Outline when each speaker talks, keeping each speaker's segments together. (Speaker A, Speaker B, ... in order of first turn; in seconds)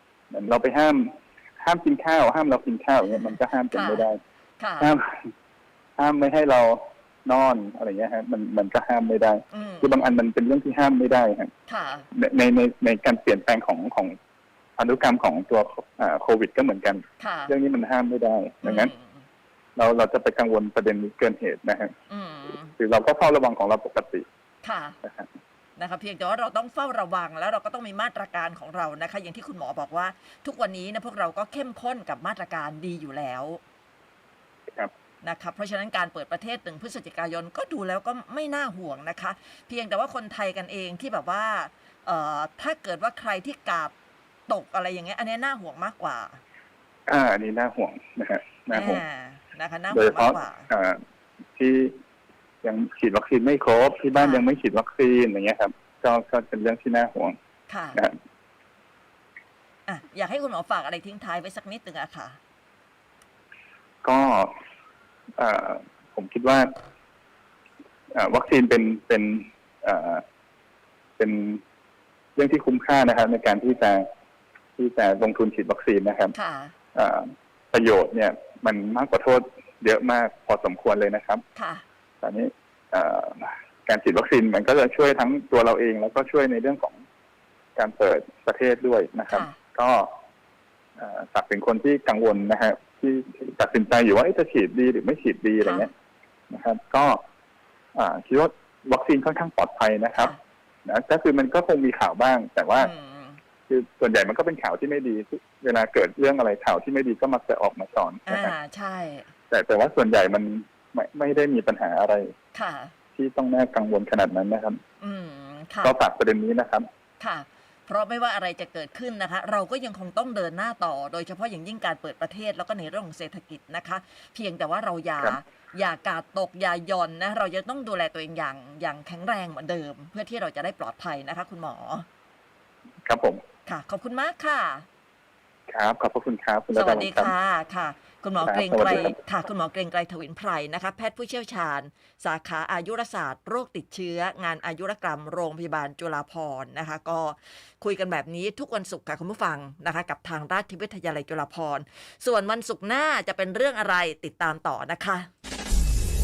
Speaker A: 0.3-4.2, 4.8-5.3, 6.0-11.5, 12.1-14.2, 14.8-18.9, 19.8-21.9, 22.7-24.3, 25.0-25.3, 47.1-49.0, 49.9-51.0, 51.6-52.0, 52.6-57.4, 64.0-64.5, 65.4-66.7, 68.1-70.2, 71.2-71.6, 72.4-74.0, 74.8-76.3, 77.0-81.4, 82.2-87.0, 87.8-90.1, 91.0-95.9, 96.5-97.2, 98.0-100.3, 100.9-102.9, 103.7-108.6, 109.5-112.3, 113.2-114.8, 115.8-116.9, 133.1-133.4, 135.7-137.3, 138.4-139.2
Speaker B: 3.1-4.1, 4.6-4.9, 9.5-10.2, 11.7-12.1, 17.2-17.5, 18.6-19.2, 22.1-22.7, 24.6-25.0, 25.8-33.6, 35.2-43.9, 44.5-46.4, 48.7-50.7, 54.2-54.5, 57.7-58.0, 59.9-62.4, 76.3-76.7, 81.5-81.8, 89.3-89.6, 95.6-95.9, 102.8-103.4, 108.3-109.3, 112.5-112.9, 115.0-115.9, 117.2-132.1, 133.7-134.9, 136.7-155.3